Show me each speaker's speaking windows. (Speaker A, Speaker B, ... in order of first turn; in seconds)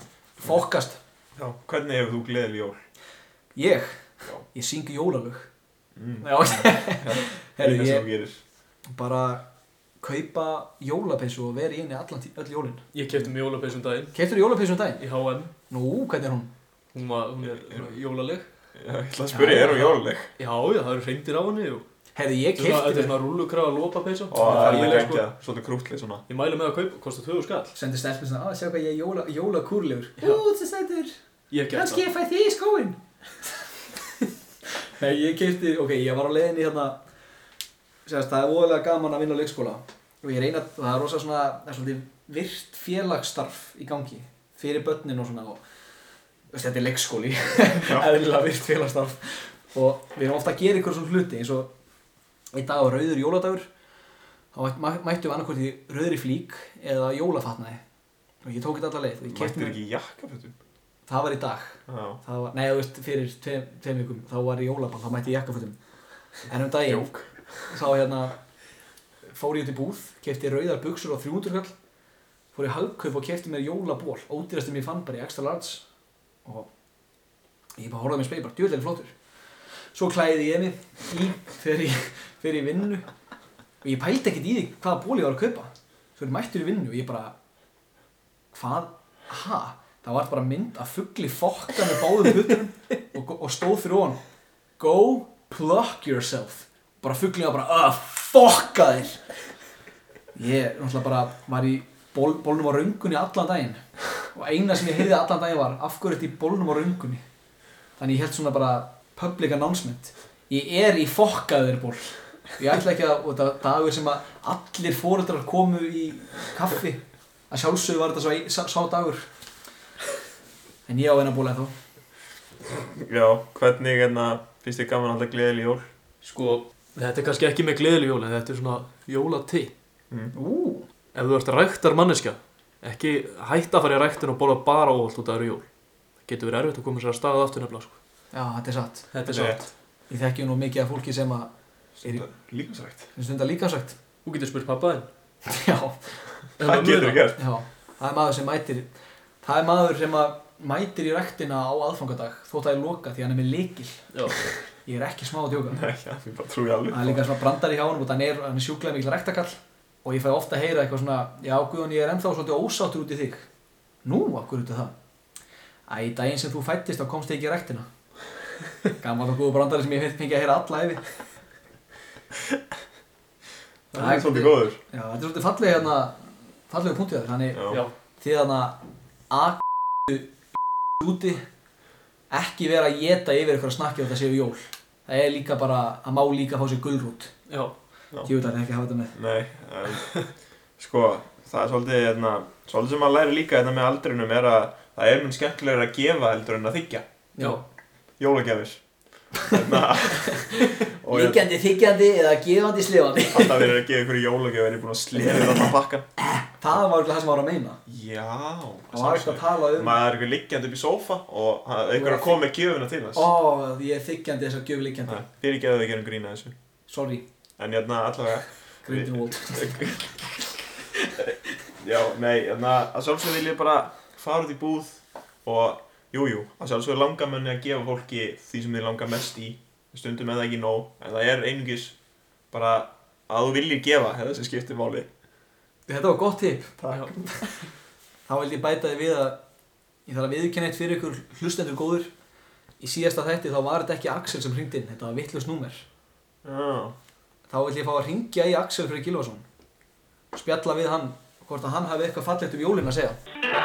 Speaker A: 0.4-1.0, 3.5-5.5, 6.2-8.1, 8.9-9.5, 10.0-12.8, 14.1-15.1, 15.7-16.5, 19.3-19.9, 22.1-23.1, 24.4-25.1, 27.7-31.1, 31.7-33.0, 35.0-37.0, 38.0-45.6, 46.5-51.7, 52.5-53.7, 54.5-57.8, 58.4-59.8, 61.1-65.8, 66.5-67.1, 67.7-68.4, 69.3-71.7, 72.5-75.8, 77.8-79.1, 79.9-83.1, 83.8-87.3, 88.5-94.2, 94.8-99.2, 100.3-107.2, 108.0-119.3, 120.9-121.7, 130.3-130.8, 138.3-139.1, 140.1-141.5, 143.1-144.0, 145.4-146.1, 147.4-148.9, 149.4-154.1, 154.8-155.8, 156.9-163.4, 164.0-164.9, 165.9-167.9, 169.0-171.0, 173.9-181.4, 182.3-187.3, 188.2-189.1, 197.4-197.6, 199.4-203.7, 206.6-207.8, 208.9-210.0, 211.9-212.4, 213.1-215.2, 216.9-217.2, 218.8-220.1, 235.9-237.5, 238.3-239.4, 240.1-242.1, 242.8-245.8, 247.5-249.4, 250.3-253.2
Speaker B: 1.4-2.8, 6.0-8.4, 17.6-17.9, 18.8-20.3, 24.3-26.2, 47.8-48.1, 59.3-60.5, 61.9-62.2, 66.8-67.5, 122.7-125.9, 139.2-139.6, 142.0-143.1, 146.6-147.4, 155.7-157.3, 173.9-174.8, 177.5-177.8, 189.1-190.1, 190.8-197.0, 198.2-198.8, 199.4-201.5, 203.3-206.1, 207.9-213.3, 215.1-216.5, 217.6-220.1, 221.2-231.9, 232.5-235.1, 236.8-237.2, 246.4-246.9
Speaker C: 12.9-14.1, 15.0-15.5, 16.9-18.5, 20.4-21.8, 22.6-25.2, 26.3-27.7, 31.5-32.0, 126.2-129.7, 131.1-135.6, 136.2-138.0, 139.1-139.7, 144.2-145.1, 146.6-147.3, 154.1-154.5, 187.5-187.7